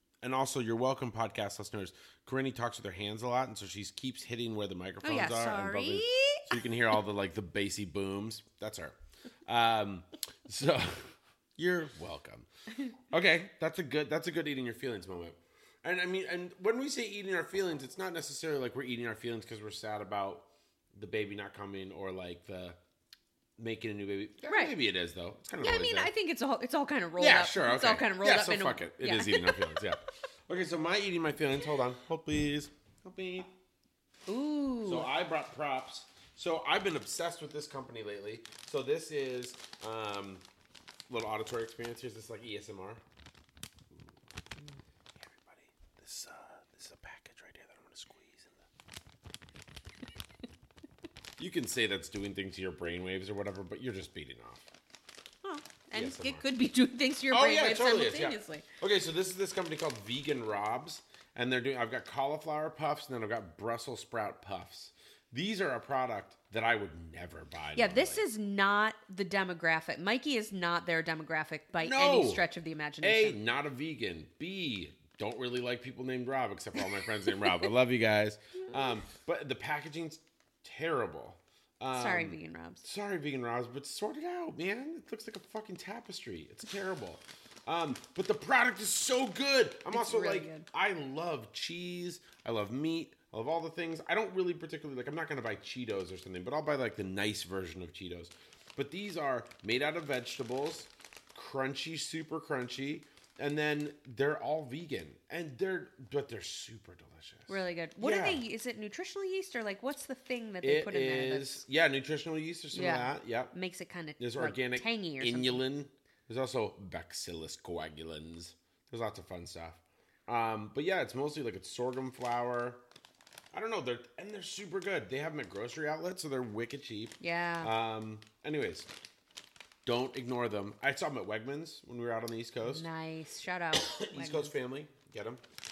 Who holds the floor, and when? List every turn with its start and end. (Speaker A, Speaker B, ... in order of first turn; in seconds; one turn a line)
Speaker A: 0.2-22.8
Speaker B: 5.0-6.6
Speaker A: 23.6-26.1
Speaker B: 24.4-24.7
Speaker B: 25.6-29.7
Speaker A: 27.2-33.5
Speaker B: 34.3-35.1
Speaker A: 34.8-40.4
Speaker A: 41.1-43.0
Speaker A: 44.6-48.6
Speaker A: 51.4-54.7
Speaker B: 55.4-58.7
Speaker A: 55.9-56.4
Speaker A: 57.3-68.2
Speaker B: 67.7-73.4
Speaker A: 71.8-72.4
Speaker A: 73.0-108.4
Speaker B: 81.9-82.8
Speaker B: 89.9-90.7
Speaker B: 107.5-111.6
Speaker A: 110.6-113.5
Speaker B: 112.7-115.6
Speaker A: 114.2-122.8
Speaker A: 123.5-128.9
Speaker B: 127.2-127.7
Speaker A: 129.8-132.8
Speaker B: 132.6-134.5
Speaker A: 133.8-135.4